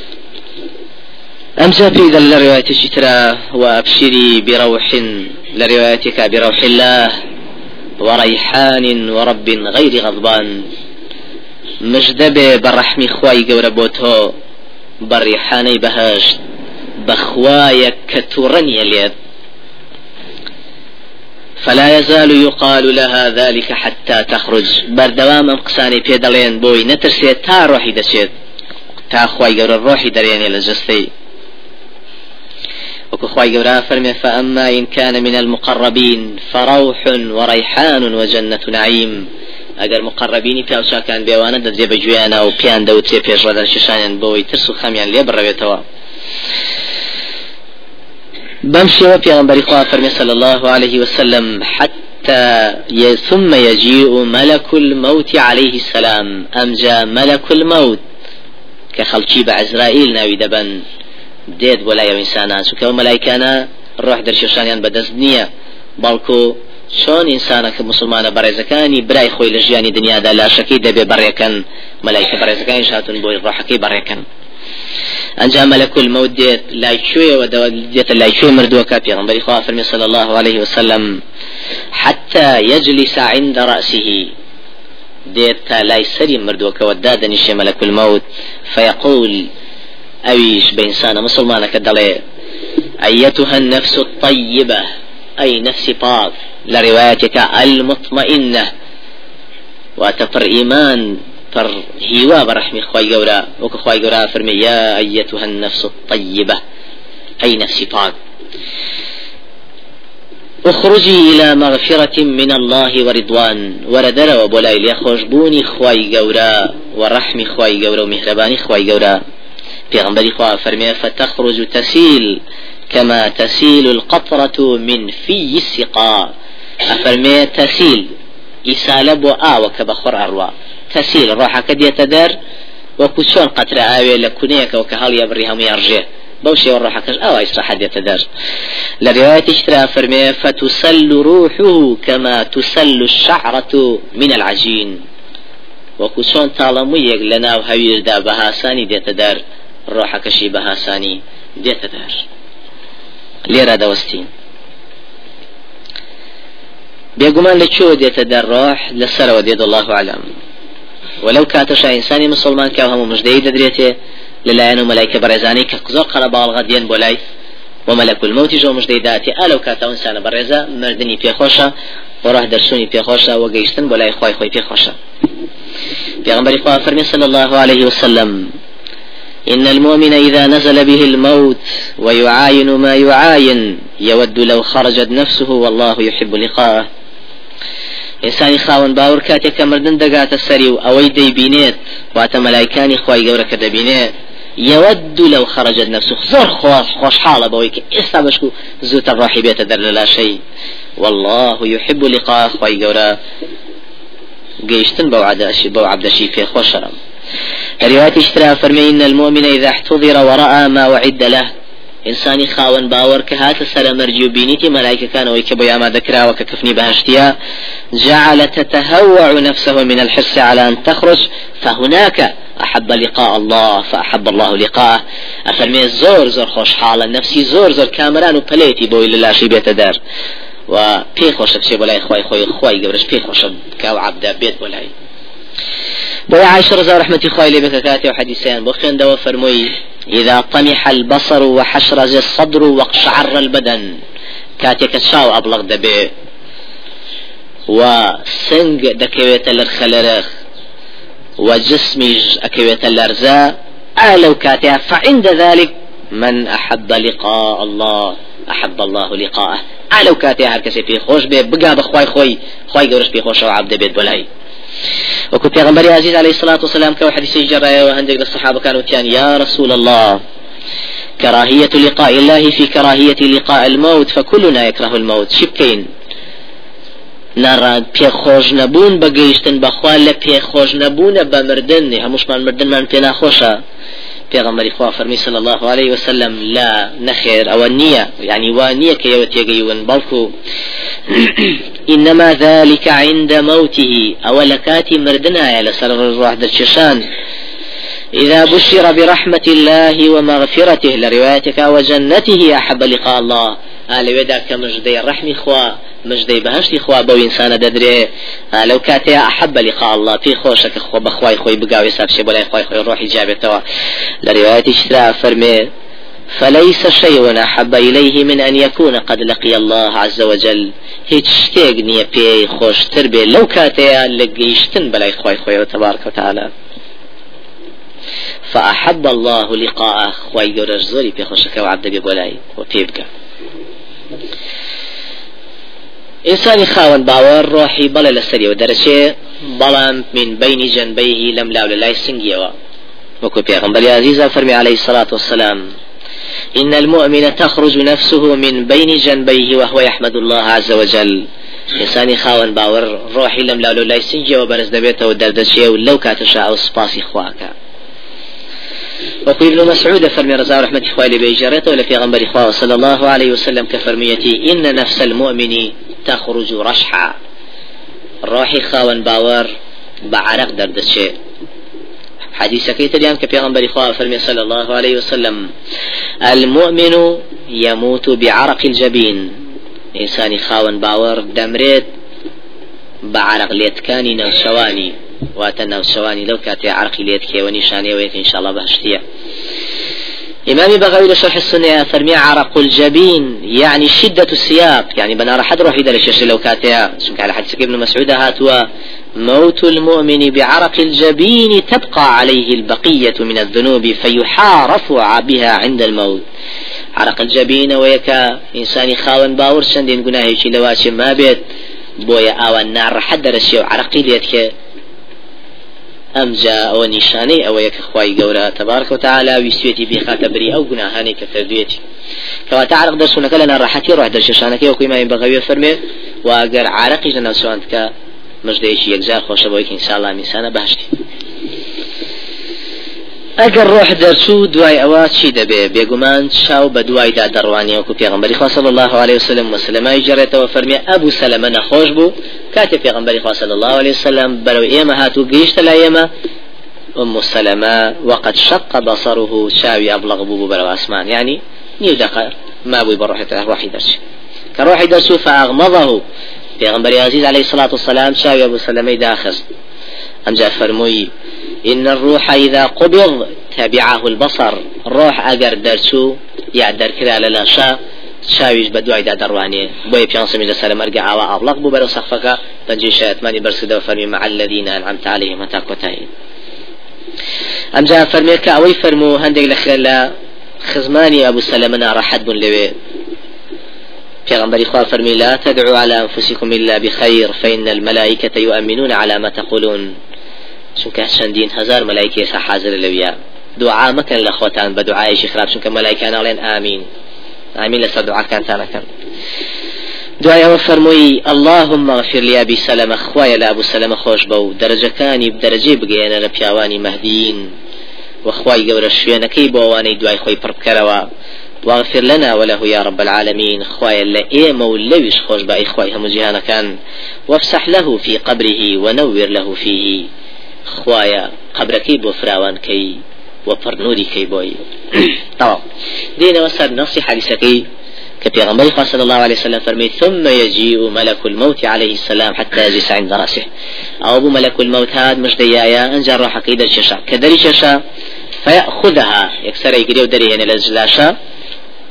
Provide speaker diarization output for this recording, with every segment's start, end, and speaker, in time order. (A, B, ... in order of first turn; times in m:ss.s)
0:01.6-0:07.2 A
0:08.0-0:10.6 A
0:11.8-0:14.3 A
0:15.0-0:16.4 A
0:17.0-0:19.1 A
0:21.6-0:28.3 A
0:29.1-0:31.1 A
0:33.1-0:39.2 A
0:39.8-0:45.8 A
0:48.6-0:58.0 A
0:58.9-1:00.8 A
1:01.5-1:05.5 A
1:06.0-1:14.2 A
1:15.4-1:21.2 A
1:21.9-1:24.3 A
1:25.3-1:29.5 A
1:30.3-1:32.2 A
1:33.0-1:34.8 A
1:35.4-1:38.7 A
1:40.0-1:46.6 A
1:47.4-1:48.1 A
1:50.6-1:59.2 A
1:59.9-2:02.4 A
2:02.9-2:06.3 A
2:06.9-2:08.1 A
2:08.7-2:12.3 A
2:13.0-2:18.2 A
2:19.0-2:25.0 A
2:26.0-2:32.2 A
2:33.5-2:34.3 A
2:37.2-2:40.2 A
2:41.2-2:43.9 A
2:44.4-2:47.2 A
2:47.9-2:51.7 A
2:52.2-2:54.9 A
2:56.2-2:58.5 A
2:59.5-3:06.9 A
3:08.2-3:14.1 A
3:14.6-3:20.4 A
3:21.0-3:23.2 A
3:24.6-3:26.9 A
3:27.8-3:31.5 A
3:32.1-3:37.3 A
3:37.9-3:50.0 A
3:50.7-3:54.9 A
3:56.3-4:04.0 A
4:04.6-4:06.1 A
4:07.7-4:10.3 A
4:11.4-4:24.2 A
4:25.3-4:30.2 A
4:31.2-4:35.9 A
4:37.4-4:43.6 A
4:44.3-4:50.3 A
4:51.1-4:57.0 A
4:58.1-5:13.6 A
5:14.2-5:15.7 A
5:16.4-5:26.5 A
5:28.5-5:33.1 A
5:36.3-5:42.5 A
5:43.2-5:45.6 A
5:46.6-5:57.5 A
5:59.2-6:07.1 A
6:08.2-6:09.5 A
6:10.1-6:11.1 A
6:12.4-6:15.5 A
6:16.2-6:19.4 A
6:20.0-6:21.8 A
6:23.0-6:29.0 A
6:30.5-6:38.6 A
6:39.2-6:46.2 A
6:47.0-6:51.4 A
6:52.0-6:54.5 A
6:56.2-7:01.8 A
7:02.5-7:07.9 A
7:08.4-7:10.9 A
7:13.4-7:26.1 A
7:27.0-7:34.0 A
7:34.6-7:36.0 A
7:36.6-7:39.4 A
7:40.2-7:41.1 A
7:41.6-7:56.1 A
7:57.8-8:00.1 A
8:00.6-8:02.7 A
8:04.2-8:09.9 A
8:10.8-8:16.8 A
8:17.6-8:18.8 A
8:20.2-8:27.5 A
8:28.2-8:31.0 A
8:31.6-8:36.7 A
8:37.3-8:40.0 A
8:40.7-8:45.6 A
8:46.2-8:47.6 A
8:48.2-8:53.4 A
8:54.0-8:57.8 A
8:58.4-9:01.1 A